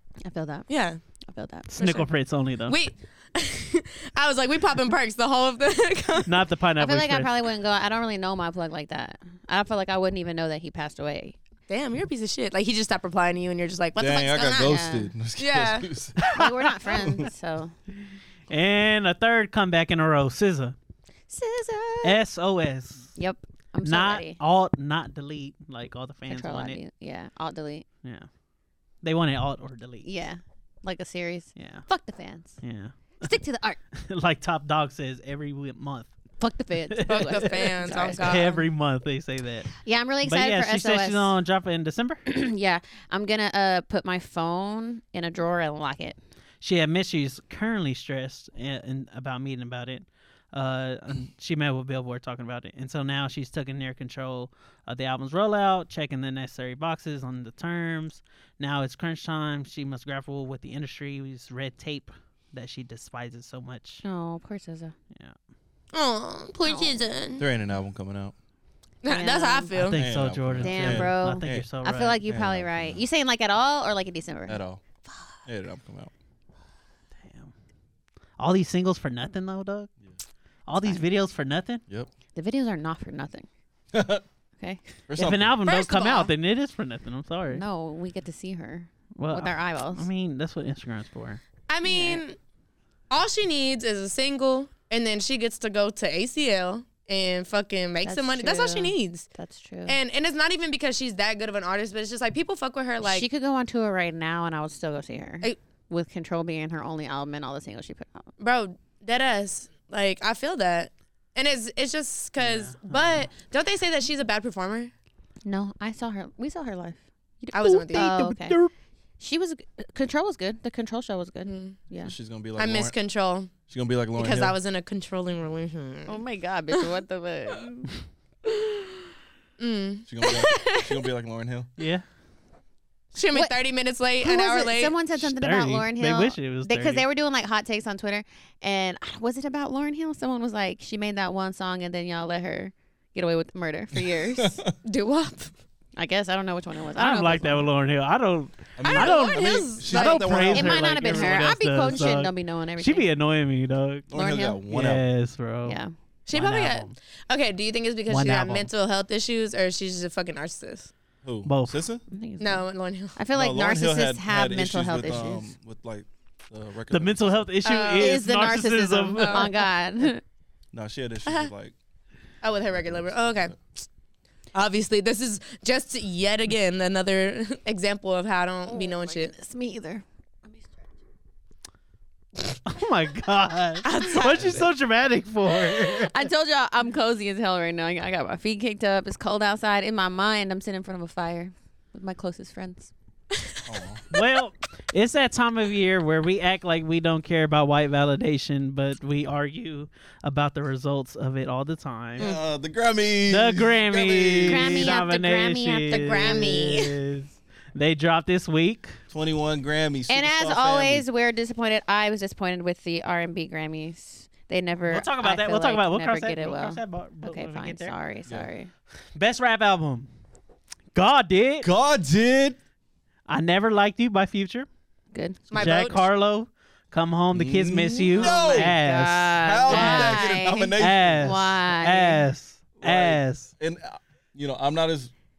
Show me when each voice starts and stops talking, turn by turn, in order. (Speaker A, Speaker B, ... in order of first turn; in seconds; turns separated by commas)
Speaker A: 0.2-0.7, Speaker B: 0.7-1.0, Speaker A: 1.3-1.7, Speaker C: 1.7-2.8, Speaker B: 1.8-2.1, Speaker B: 2.7-6.3, Speaker C: 6.3-7.3, Speaker A: 6.8-11.4, Speaker B: 11.7-14.8, Speaker D: 14.0-16.2, Speaker A: 14.6-15.1, Speaker B: 15.4-15.9, Speaker C: 16.2-16.5, Speaker A: 16.3-17.8, Speaker D: 16.9-17.3, Speaker C: 18.5-20.8, Speaker A: 21.3-22.2, Speaker C: 22.0-23.1, Speaker A: 23.2-24.4, Speaker C: 23.8-26.8, Speaker A: 26.3-27.9, Speaker C: 29.0-30.1, Speaker A: 30.0-32.6, Speaker C: 31.6-31.9, Speaker C: 32.6-33.3, Speaker A: 33.2-33.8, Speaker C: 34.0-36.1, Speaker A: 36.4-38.4, Speaker C: 36.9-42.2, Speaker B: 37.1-38.6, Speaker A: 39.8-41.3, Speaker A: 42.3-46.2, Speaker C: 46.6-64.0, Speaker A: 64.0-64.9, Speaker B: 65.9-67.5, Speaker A: 66.7-67.0, Speaker D: 67.4-68.3, Speaker B: 69.0-70.0, Speaker A: 69.1-69.7, Speaker C: 69.7-72.2, Speaker D: 70.0-71.7, Speaker A: 70.6-74.6, Speaker D: 72.2-73.0, Speaker D: 74.5-74.8, Speaker D: 75.5-76.1, Speaker C: 77.2-77.5, Speaker C: 78.4-79.9, Speaker C: 80.7-81.8, Speaker A: 82.3-83.5, Speaker D: 83.9-84.2, Speaker D: 85.1-85.5, Speaker C: 85.2-87.6, Speaker B: 85.7-86.3, Speaker A: 87.5-90.1, Speaker C: 89.2-91.4, Speaker B: 91.7-92.4, Speaker A: 91.8-92.2, Speaker B: 93.1-99.3, Speaker A: 98.0-100.0, Speaker B: 99.9-103.3, Speaker A: 103.0-108.3, Speaker B: 108.4-114.9, Speaker C: 112.4-113.3, Speaker A: 115.5-118.6, Speaker B: 117.5-118.1, Speaker C: 117.6-118.7, Speaker A: 119.2-122.1, Speaker B: 121.5-121.8, Speaker D: 122.0-123.0, Speaker B: 122.6-123.5, Speaker D: 123.7-124.6, Speaker B: 124.2-126.2, Speaker A: 126.1-127.9, Speaker B: 129.6-130.8, Speaker D: 130.1-131.7, Speaker C: 131.8-132.0, Speaker B: 133.1-134.9, Speaker A: 134.2-144.6, Speaker C: 135.2-137.1, Speaker D: 143.9-144.8, Speaker B: 144.8-145.5, Speaker A: 146.0-147.7, Speaker C: 147.0-154.1, Speaker D: 148.8-151.4, Speaker B: 148.8-150.5, Speaker A: 150.5-153.1, Speaker D: 154.1-155.1, Speaker A: 154.1-154.6, Speaker C: 154.7-155.8, Speaker A: 155.7-155.9, Speaker B: 156.3-160.9, Speaker C: 156.3-156.9, Speaker C: 158.1-158.7, Speaker D: 161.2-162.0, Speaker C: 161.4-161.8, Speaker A: 162.1-165.5, Speaker B: 162.4-163.2, Speaker D: 163.3-167.5, Speaker C: 166.9-169.7, Speaker B: 167.7-168.1, Speaker A: 167.9-170.2, Speaker B: 169.2-169.5, Speaker D: 170.7-171.8, Speaker B: 172.4-173.6, Speaker D: 172.7-173.6, Speaker B: 174.5-179.3, Speaker A: 178.7-180.7, Speaker C: 182.7-186.1, Speaker B: 183.8-184.6, Speaker D: 184.4-184.7, Speaker A: 185.9-192.9, Speaker D: 193.7-194.0, Speaker C: 194.1-202.3, Speaker D: 202.2-204.9, Speaker C: 203.3-208.9, Speaker A: 204.5-206.6, Speaker B: 205.9-206.9, Speaker D: 209.1-211.1, Speaker A: 210.1-218.7, Speaker C: 214.9-217.9, Speaker C: 219.2-220.1, Speaker C: 220.9-221.7, Speaker D: 221.6-222.6, Speaker C: 223.3-224.7, Speaker A: 225.1-225.4, Speaker B: 225.5-226.1, Speaker C: 225.5-233.5, Speaker D: 227.3-228.8, Speaker A: 228.2-232.2, Speaker D: 229.4-231.5, Speaker D: 232.8-235.1